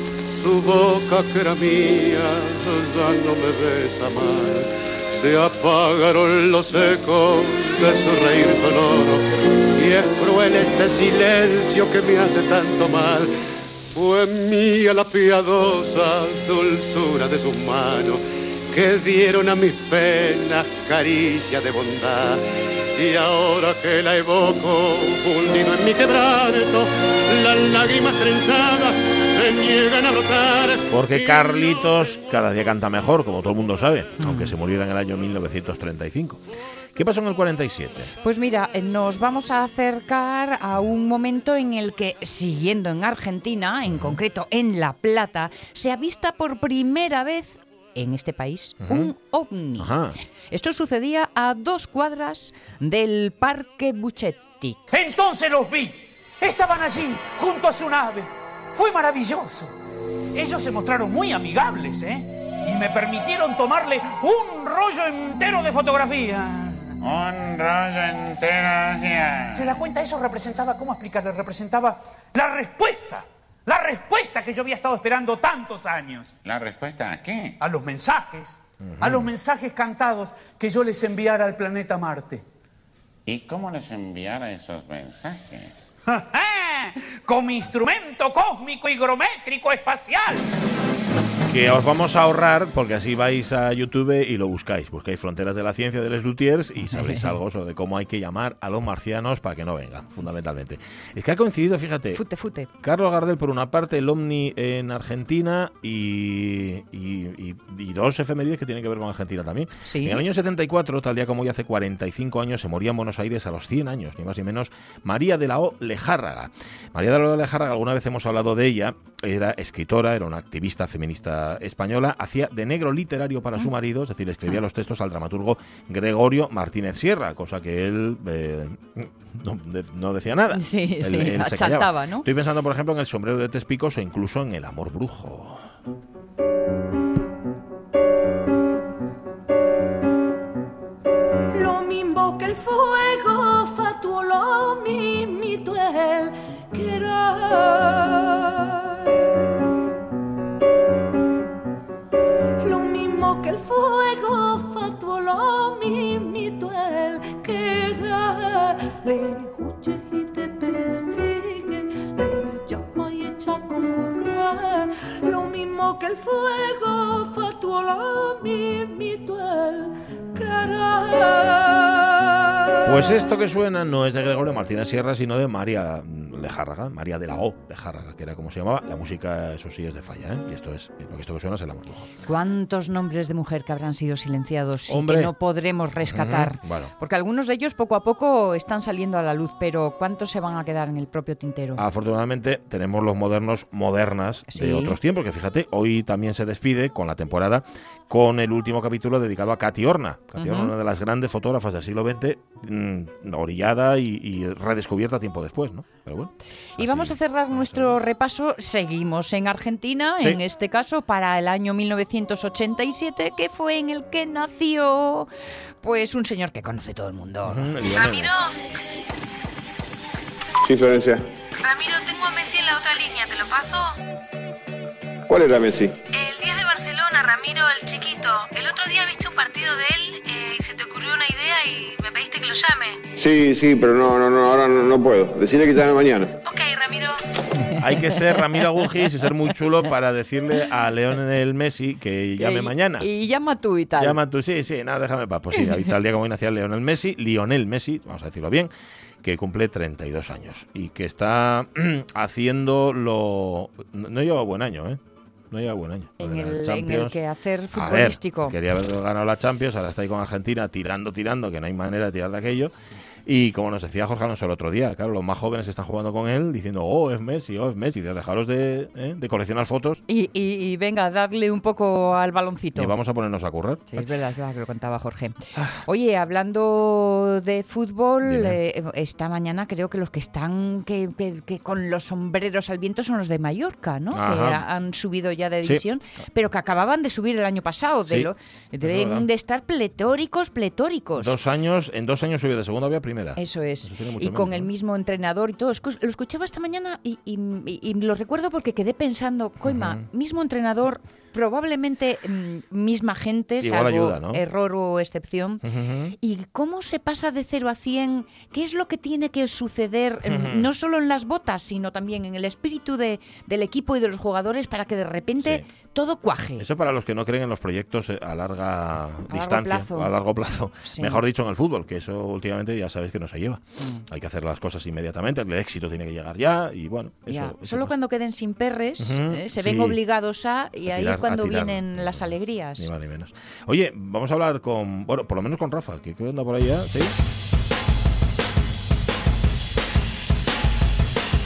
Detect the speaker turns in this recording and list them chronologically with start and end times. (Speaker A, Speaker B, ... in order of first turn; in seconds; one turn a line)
Speaker A: 0.4-13.4
Speaker A: 13.9-30.9
Speaker B: 30.9-36.4
Speaker C: 34.2-34.5
Speaker B: 37.0-38.1
Speaker C: 38.2-49.9
Speaker B: 43.9-44.2
Speaker B: 48.8-49.1
Speaker B: 49.8-50.2
Speaker C: 50.5-55.0
Speaker D: 54.9-59.7
Speaker D: 60.4-66.9
Speaker E: 67.0-69.8
Speaker D: 69.5-76.4
Speaker E: 76.4-77.6
Speaker D: 77.6-82.4
Speaker B: 78.8-79.3
Speaker E: 83.3-85.8
Speaker D: 86.1-90.5
Speaker B: 91.5-102.2
Speaker C: 96.8-97.4
Speaker C: 102.1-102.7
Speaker B: 102.8-135.7
Speaker C: 109.8-110.2
Speaker C: 130.5-132.3
Speaker F: 141.5-149.0
Speaker F: 152.6-172.2
Speaker B: 172.8-182.1
Speaker C: 182.2-191.8
Speaker B: 184.9-185.3
Speaker B: 186.1-186.9
Speaker B: 191.8-208.0
Speaker C: 194.5-195.0
Speaker C: 200.4-200.7
Speaker C: 206.8-215.3
Speaker C: 215.8-217.8
Speaker B: 217.4-218.3
Speaker G: 217.9-218.5
Speaker H: 220.6-221.2
Speaker G: 221.6-223.9
Speaker H: 225.3-225.9
Speaker G: 226.1-233.0
Speaker H: 233.2-236.3
Speaker G: 236.4-237.2
Speaker B: 237.8-243.1
Speaker C: 242.4-244.2
Speaker B: 244.0-248.7
Speaker C: 245.5-245.9
Speaker B: 249.2-255.0
Speaker B: 255.5-257.2
Speaker C: 256.2-258.6
Speaker B: 257.7-262.7
Speaker B: 263.3-270.0
Speaker C: 270.1-272.9
Speaker B: 272.8-274.1
Speaker C: 273.9-291.4
Speaker B: 275.6-275.8
Speaker B: 278.2-278.6
Speaker B: 284.1-284.6
Speaker B: 288.8-289.3
Speaker B: 291.2-294.7
Speaker C: 293.4-305.6
Speaker B: 299.6-300.0
Speaker B: 303.6-304.4
Speaker B: 305.6-306.1
Speaker C: 306.2-316.7
Speaker B: 310.2-310.7
Speaker B: 315.4-315.7
Speaker B: 316.6-327.9
Speaker C: 319.3-320.1
Speaker C: 320.8-321.2
Speaker C: 323.8-324.1
Speaker C: 327.3-332.9
Speaker B: 329.0-330.0
Speaker B: 330.9-332.3
Speaker B: 332.8-337.2